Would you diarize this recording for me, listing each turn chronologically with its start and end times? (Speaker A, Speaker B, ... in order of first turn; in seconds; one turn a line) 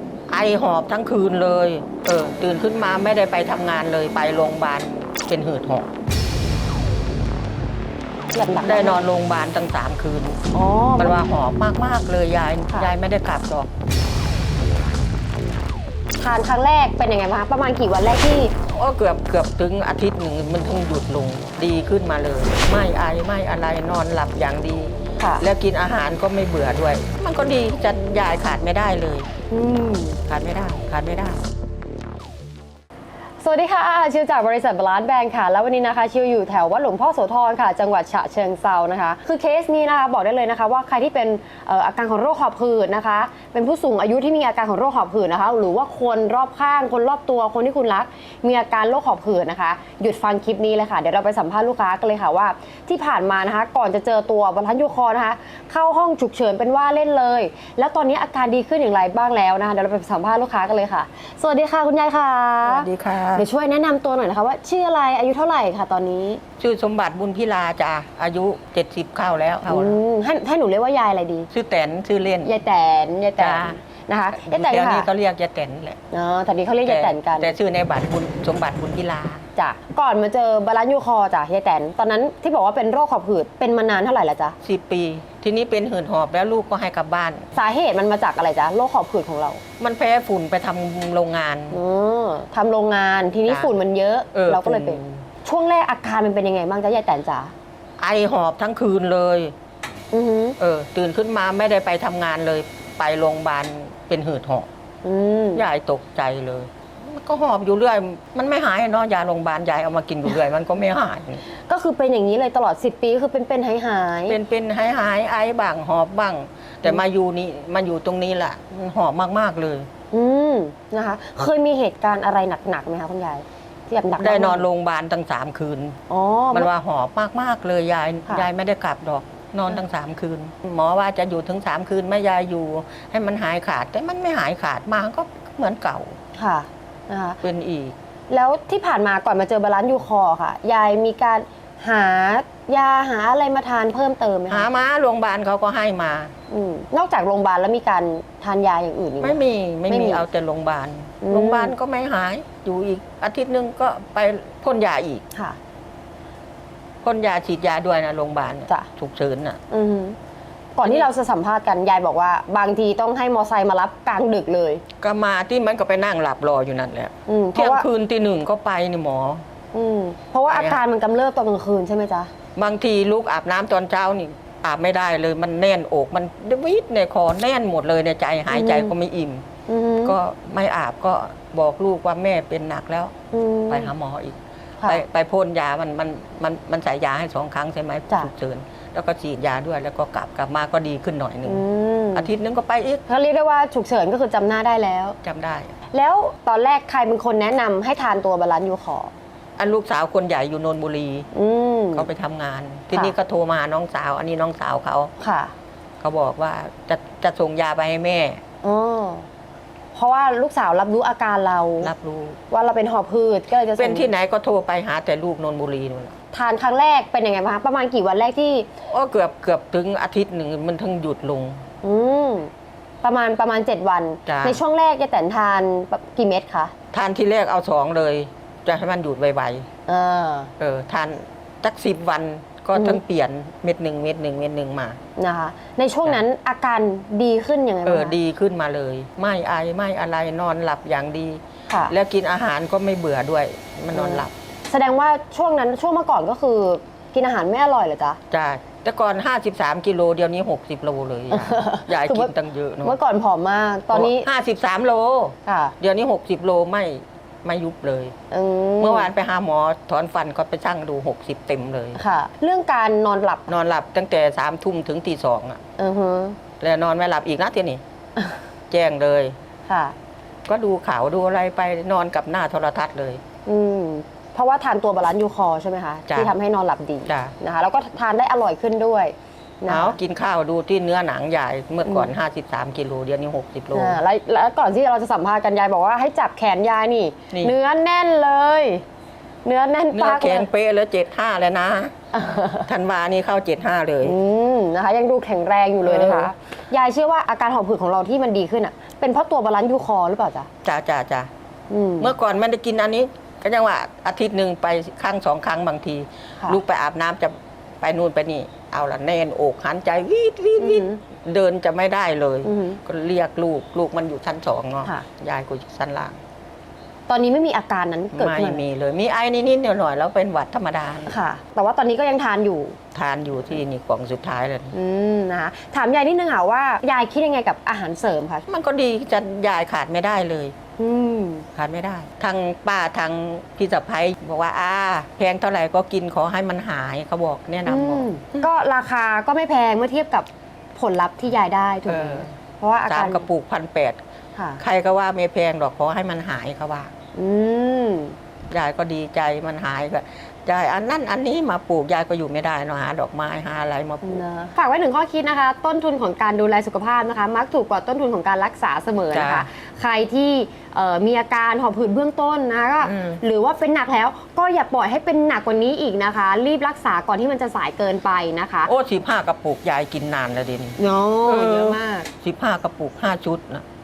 Speaker A: 0.3-5.9
Speaker B: 8.3-9.0
Speaker A: 8.6-10.4
Speaker B: 10.5-11.2
Speaker A: 11.0-13.7
Speaker B: 16.2-18.5
Speaker A: 18.7-29.3
Speaker B: 25.2-25.4
Speaker B: 29.5-30.2
Speaker A: 30.3-31.4
Speaker B: 33.4-66.4
Speaker A: 62.6-63.5
Speaker A: 66.6-70.0
Speaker B: 69.7-71.5
Speaker A: 71.5-72.5
Speaker B: 72.4-75.1
Speaker A: 73.4-73.8
Speaker A: 74.3-76.0
Speaker B: 76.1-77.5
Speaker A: 76.8-79.4
Speaker B: 79.5-84.5
Speaker A: 84.6-87.5
Speaker B: 87.5-89.6
Speaker A: 89.8-91.8
Speaker B: 91.7-97.5
Speaker A: 93.5-93.7
Speaker A: 94.3-95.2
Speaker A: 98.0-99.5
Speaker B: 100.1-100.6
Speaker A: 100.6-104.7
Speaker B: 105.0-105.6
Speaker A: 105.5-111.4
Speaker B: 111.5-114.4
Speaker A: 114.3-119.9
Speaker B: 120.1-124.7
Speaker A: 124.2-126.0
Speaker B: 126.1-126.7
Speaker A: 126.5-136.2
Speaker B: 136.3-137.4
Speaker A: 137.4-137.9
Speaker B: 138.3-144.7
Speaker A: 144.5-146.3
Speaker B: 146.5-150.2
Speaker A: 149.2-155.2
Speaker B: 151.2-151.7
Speaker B: 155.3-155.6
Speaker A: 157.0-159.6
Speaker B: 159.7-160.2
Speaker B: 160.8-164.8
Speaker A: 160.8-161.1
Speaker A: 165.0-169.4
Speaker B: 167.3-167.9
Speaker B: 169.7-172.3
Speaker A: 170.5-170.8
Speaker A: 172.6-179.4
Speaker B: 178.5-178.9
Speaker B: 179.7-180.2
Speaker A: 180.0-183.1
Speaker B: 183.3-183.9
Speaker A: 183.7-193.0
Speaker B: 191.5-192.3
Speaker B: 193.1-195.2
Speaker A: 195.2-195.7
Speaker B: 195.9-199.1
Speaker A: 199.6-201.3
Speaker B: 201.3-202.1
Speaker A: 201.9-205.1
Speaker B: 205.2-205.5
Speaker A: 206.0-208.4
Speaker B: 208.6-209.2
Speaker B: 209.9-211.9
Speaker A: 211.8-212.4
Speaker B: 212.5-214.1
Speaker A: 213.8-216.1
Speaker B: 216.3-218.7
Speaker A: 218.9-221.6
Speaker B: 221.8-222.5
Speaker B: 223.0-226.7
Speaker A: 224.2-224.6
Speaker A: 226.9-229.7
Speaker B: 229.9-230.5
Speaker A: 230.6-235.0
Speaker B: 232.7-233.0
Speaker B: 235.2-238.2
Speaker A: 237.8-244.3
Speaker B: 243.9-248.2
Speaker A: 248.3-252.9
Speaker B: 251.3-252.3
Speaker B: 252.8-254.3
Speaker A: 253.9-258.1
Speaker B: 255.4-255.7
Speaker B: 258.3-259.1
Speaker A: 258.8-262.0
Speaker B: 261.9-263.5
Speaker A: 263.5-265.6
Speaker B: 265.8-266.4
Speaker A: 266.6-267.8
Speaker A: 268.7-269.4
Speaker B: 269.7-269.9
Speaker A: 270.5-273.2
Speaker B: 273.4-280.0
Speaker A: 277.1-277.3
Speaker A: 279.7-284.0
Speaker B: 283.7-288.8
Speaker A: 287.3-287.6
Speaker B: 289.4-290.5
Speaker A: 289.9-291.9
Speaker B: 292.1-292.7
Speaker A: 292.7-294.1
Speaker B: 294.0-300.5
Speaker A: 295.8-296.3
Speaker A: 300.6-301.3
Speaker B: 301.7-302.1
Speaker A: 302.0-316.2
Speaker B: 310.6-311.0
Speaker B: 312.4-312.8
Speaker B: 317.1-318.6
Speaker A: 318.1-321.1
Speaker B: 321.1-322.8
Speaker A: 322.9-324.7
Speaker B: 324.7-328.4
Speaker A: 328.5-330.5
Speaker B: 330.8-331.5
Speaker A: 331.5-338.5
Speaker B: 337.6-343.2
Speaker A: 341.9-342.3
Speaker A: 342.9-344.0
Speaker B: 344.4-344.6
Speaker A: 344.6-346.9
Speaker B: 347.1-348.1
Speaker A: 348.5-354.2
Speaker B: 354.0-368.7
Speaker A: 359.1-359.5
Speaker A: 362.8-363.2
Speaker A: 368.6-373.6
Speaker B: 370.8-372.1